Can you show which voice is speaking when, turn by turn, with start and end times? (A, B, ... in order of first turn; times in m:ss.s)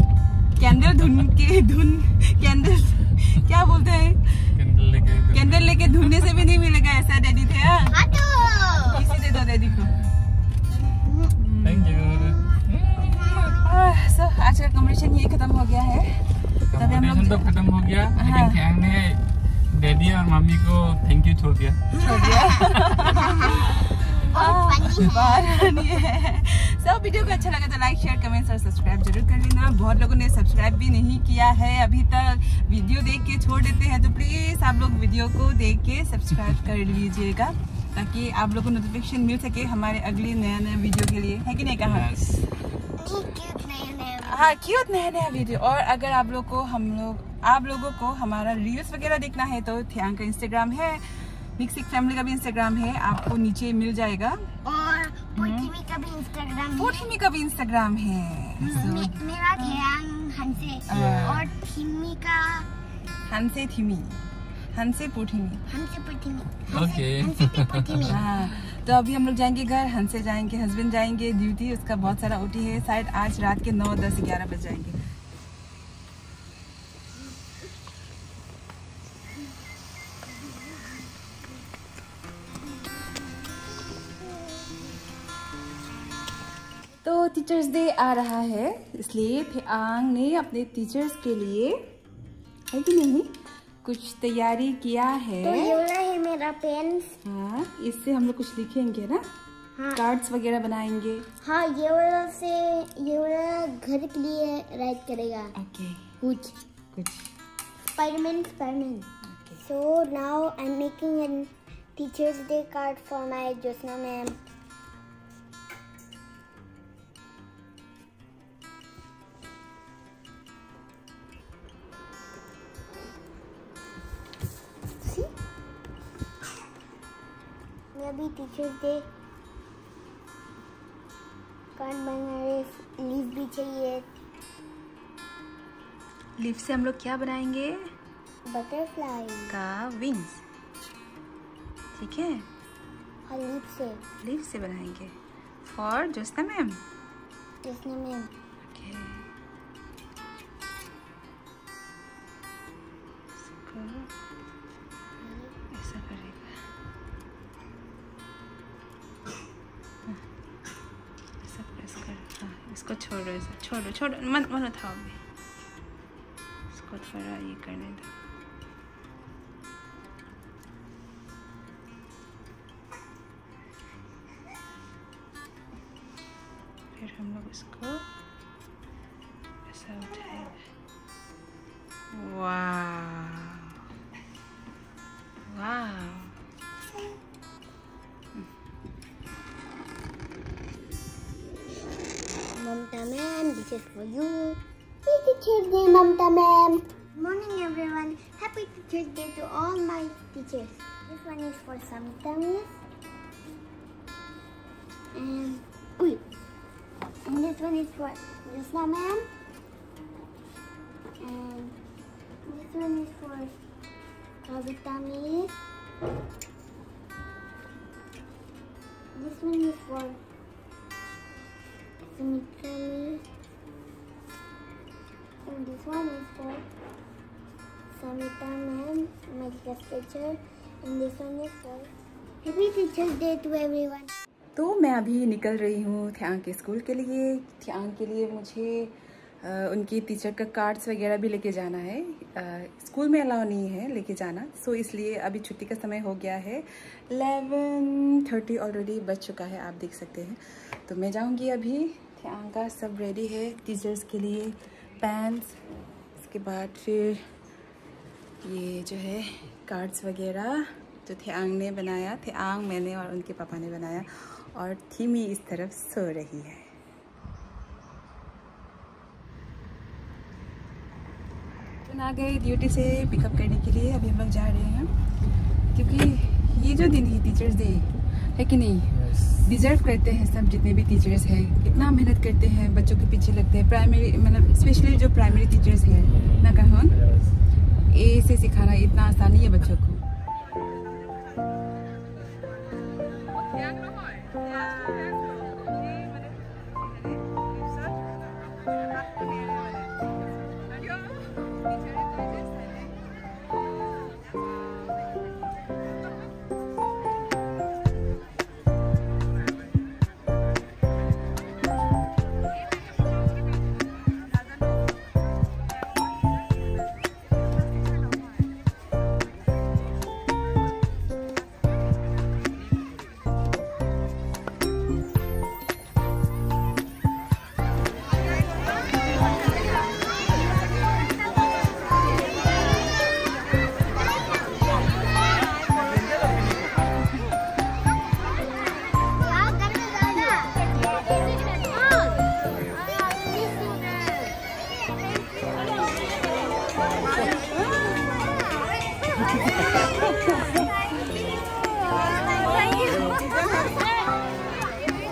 0:00.6-0:04.4 A
0:04.6-0:06.3 B
0:05.3-0:08.0 A
0:07.8-0:09.1 C
0:08.9-0:10.0 A
0:10.7-0:11.4 C
0:11.4-0:11.9 A
0:11.6-0:13.4 B
0:12.0-0:12.6 C
0:13.2-0:17.5 A
0:16.7-0:23.3 B
0:18.2-0:18.6 A
0:22.0-0:25.8 C
0:22.0-0:42.1 A
0:41.8-0:42.5 B
0:43.0-0:44.6 C
0:44.3-0:51.1 A
0:51.6-0:54.4 A
0:54.6-0:57.1 C
0:55.4-0:55.7 A
0:56.8-0:59.8 A
0:58.6-1:02.7 C
1:00.9-1:01.5 A
1:00.9-1:01.5 B
1:03.3-1:04.2 A
1:04.8-1:05.6 A
1:05.7-1:08.3 C
1:06.7-1:08.2 B
1:08.1-1:15.0 A
1:27.0-1:31.8 A
1:32.7-1:33.3 A
1:33.8-1:35.8 A
1:35.4-1:37.2 C
1:37.2-1:39.2 A
1:39.8-1:40.0 C
1:40.0-1:41.2 A
1:41.4-1:45.6 C
1:45.6-1:46.1 A
1:46.2-1:46.6 C
1:48.0-1:49.1 C
1:49.3-1:49.6 A
1:49.6-1:54.4 C
2:07.9-2:09.1 C
2:11.8-2:14.1 C
2:16.4-2:17.8 A
2:18.5-2:19.6 C
2:19.5-2:20.4 A
2:22.0-2:22.4 A
2:23.3-2:24.0 C
2:24.2-2:26.8 A
2:27.6-2:28.3 C
2:28.7-2:29.3 A
2:33.5-2:34.1 A
2:35.2-2:35.6 C
2:35.7-2:36.5 A
2:41.4-2:45.2 A
2:46.7-2:48.1 A
2:57.0-2:58.0 A
2:59.7-3:00.6 A
3:02.1-3:03.8 A
3:05.5-3:06.3 A
3:12.5-3:22.8 C
3:25.1-3:26.2 C
3:27.2-3:29.3 C
3:31.2-3:31.8 C
3:32.5-3:33.6 C
3:34.4-3:35.6 C
3:39.2-3:40.2 C
3:42.1-3:43.2 C
3:45.5-3:46.6 C
3:48.0-3:51.9 C
3:52.4-3:54.1 C
3:54.6-4:15.6 A
4:16.2-4:17.2 A
4:18.4-4:26.7 A
4:31.9-4:34.9 A
4:35.7-4:47.0 A
4:38.9-4:39.5 B
4:46.0-4:47.4 B
4:47.9-4:50.0 A
4:54.2-4:56.1 A
4:59.2-4:59.7 A
5:00.9-5:01.2 A
5:38.2-5:41.7 C
5:42.9-5:44.3 C
5:47.2-5:47.8 C
5:52.7-5:53.2 C